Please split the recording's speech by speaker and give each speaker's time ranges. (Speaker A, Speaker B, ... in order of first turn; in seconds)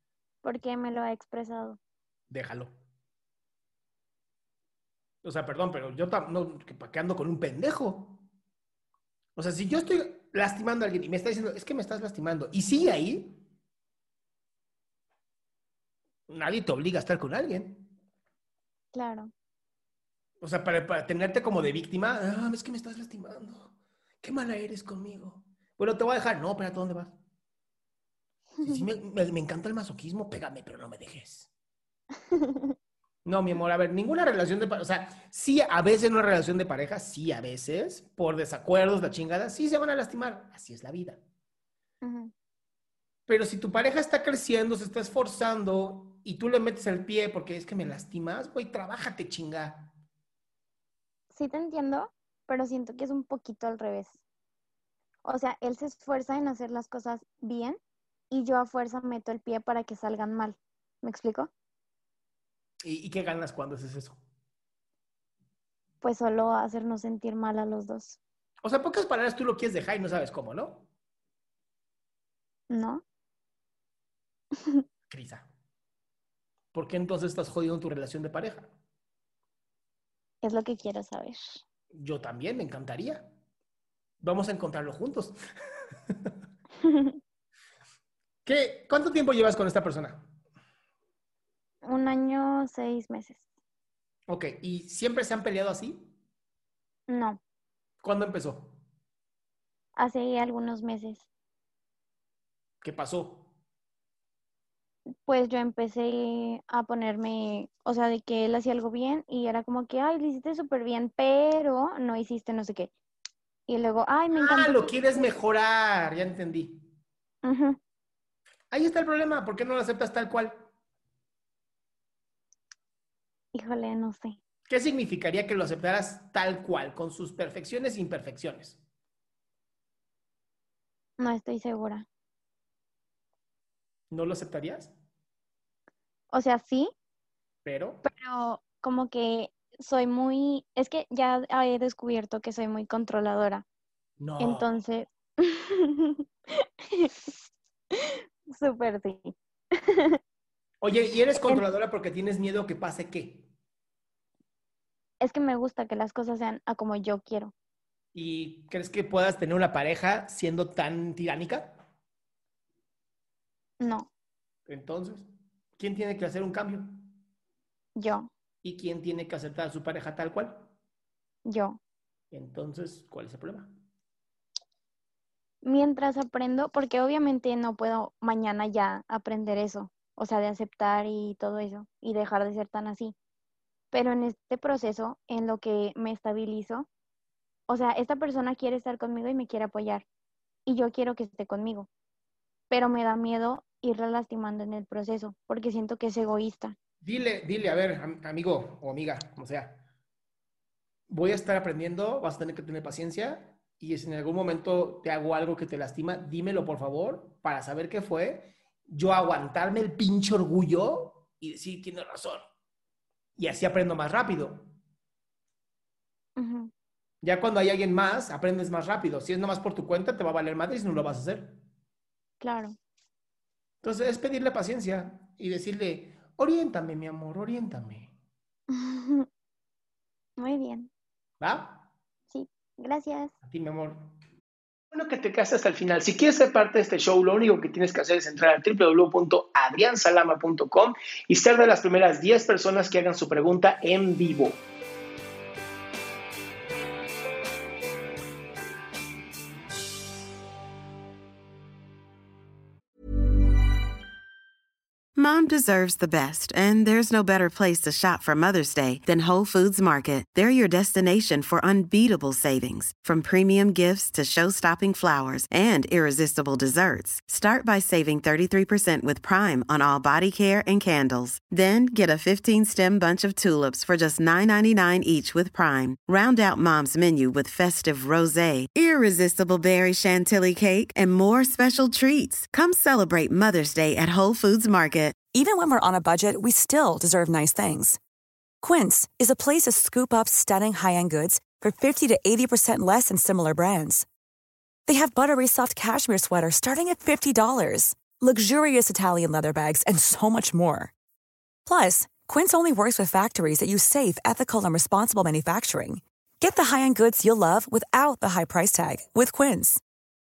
Speaker A: 0.4-1.8, 18.9-19.3, 32.3-32.7, 42.0-42.3, 51.3-54.2, 55.2-61.5, 66.0-68.2, 72.7-73.0, 80.4-81.6, 86.8-87.2, 91.8-93.4, 97.1-97.4, 100.0-101.3, 105.1-112.9, 113.7-115.2, 117.4-117.8, 123.5-124.4, 131.2-132.1, 136.3-136.9, 138.0-143.7, 144.4-146.2, 147.0-147.3, 148.5-149.3, 155.2-157.5, 163.8-164.1, 168.0-168.3, 171.4-171.8, 175.6-183.2, 183.9-186.9, 187.7-190.1, 190.7-191.9, 192.7-196.8, 216.4-216.7, 222.4-222.8, 228.7-229.3, 230.4-230.9, 232.3-233.3
Speaker B: 2.3-2.7, 5.2-8.3, 9.4-13.4, 16.3-17.9, 20.4-27.2, 28.6-31.5, 33.2-41.2, 43.3-49.9, 62.9-64.2, 68.6-70.9, 75.1-75.5, 76.7-78.7, 82.0-83.3, 84.2-85.4, 88.5-90.3, 94.3-96.1, 98.0-98.8, 102.8-103.5, 114.3-116.9, 118.7-120.7, 124.7-128.8, 134.1-134.9, 137.7-138.0, 144.2-144.7, 150.8-153.5, 158.2-161.8, 164.7-167.1, 168.6-170.7, 172.3-173.7, 197.0-199.8, 201.1-212.5, 213.4-214.7, 217.2-221.6, 223.8-228.1, 231.4-231.8, 233.4-234.1, 234.9-244.6
Speaker C: 255.2-285.1
Speaker D: 285.3-288.0, 288.6-294.1, 294.9-300.9, 301.7-309.8